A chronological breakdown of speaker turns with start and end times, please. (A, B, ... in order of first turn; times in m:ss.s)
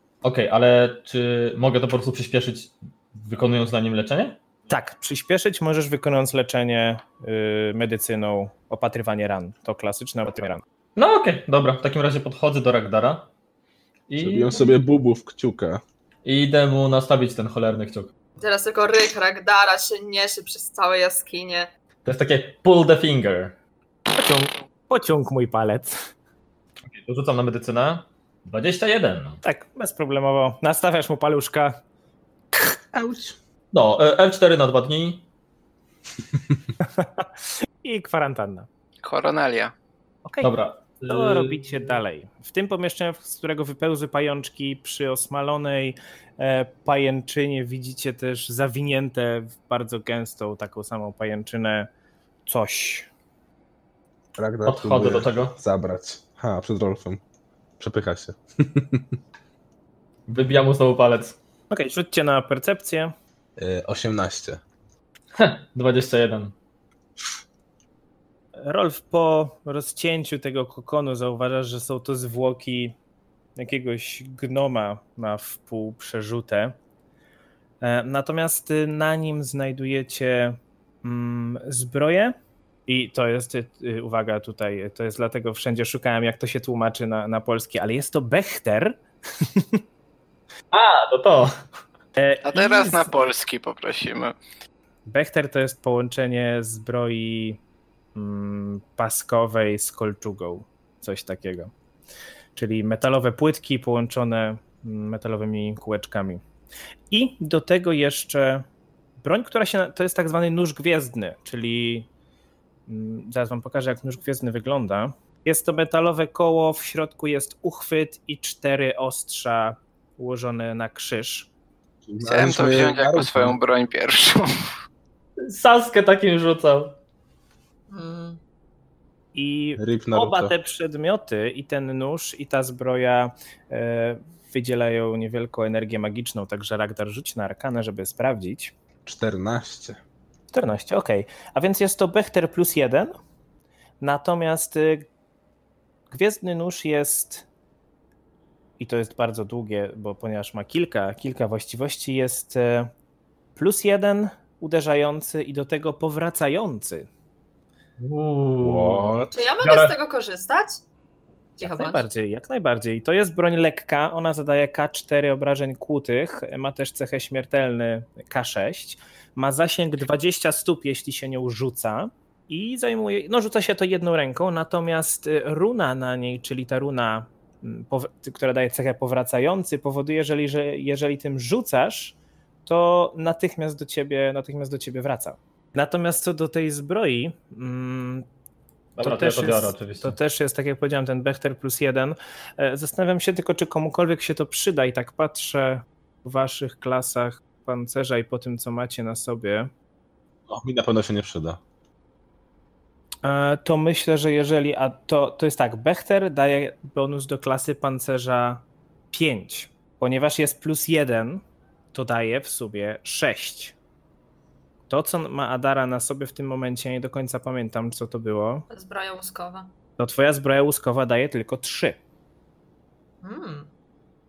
0:00.2-0:04.4 A
0:04.7-0:10.6 B
0:11.0-0:13.3 A
0:14.1-0:14.7 A
0:14.2-0:15.8 C
0:16.2-0:18.1 A
0:18.4-0:21.7 D
0:22.0-0:23.6 A
0:24.2-0:26.1 B
0:26.9-0:29.4 A
0:29.4-0:31.8 B
0:32.6-0:33.3 B
0:33.7-0:35.2 A
0:36.8-0:37.3 B
0:37.8-0:38.7 B
0:39.0-0:39.7 E
0:40.2-0:40.5 B
0:40.4-0:42.0 A
0:41.0-0:51.9 B
0:52.4-0:53.1 B
0:54.4-0:57.2 C
0:54.6-0:55.5 A
0:57.8-0:59.2 C
1:00.3-1:01.4 A
1:01.7-1:03.1 B
1:03.6-1:04.6 C
1:05.3-1:06.5 A
1:08.6-1:12.9 B
1:13.6-1:16.8 B
1:17.8-1:22.4 B
1:22.9-1:29.8 B
1:30.7-1:31.6 A
1:32.2-1:33.1 B
1:32.4-1:34.4 E
1:35.1-1:37.6 B
1:38.1-1:41.7 B
1:42.5-1:46.4 B
1:47.1-1:48.6 B
1:49.2-1:52.1 B
1:52.9-2:01.5 B
2:02.0-2:03.6 C
2:02.2-2:04.4 E
2:05.4-2:07.0 A
2:07.9-2:08.4 D
2:09.3-2:18.7 B
2:09.8-2:10.6 C
2:19.0-2:20.0 C
2:20.5-2:23.1 B
2:24.0-2:25.1 B
2:26.1-2:27.4 B
2:28.8-2:32.9 B
2:33.6-2:37.1 B
2:38.0-2:39.9 A
2:38.6-2:39.3 C
2:39.3-2:40.8 D
2:41.6-2:42.0 D
2:41.6-3:08.3 B
3:09.0-3:10.1 A
3:09.0-3:19.7 B
3:20.5-3:21.6 C
3:23.2-3:33.7 B
3:34.9-3:38.6 B
3:38.7-3:39.7 D
3:40.0-3:42.0 B
3:43.2-3:43.7 D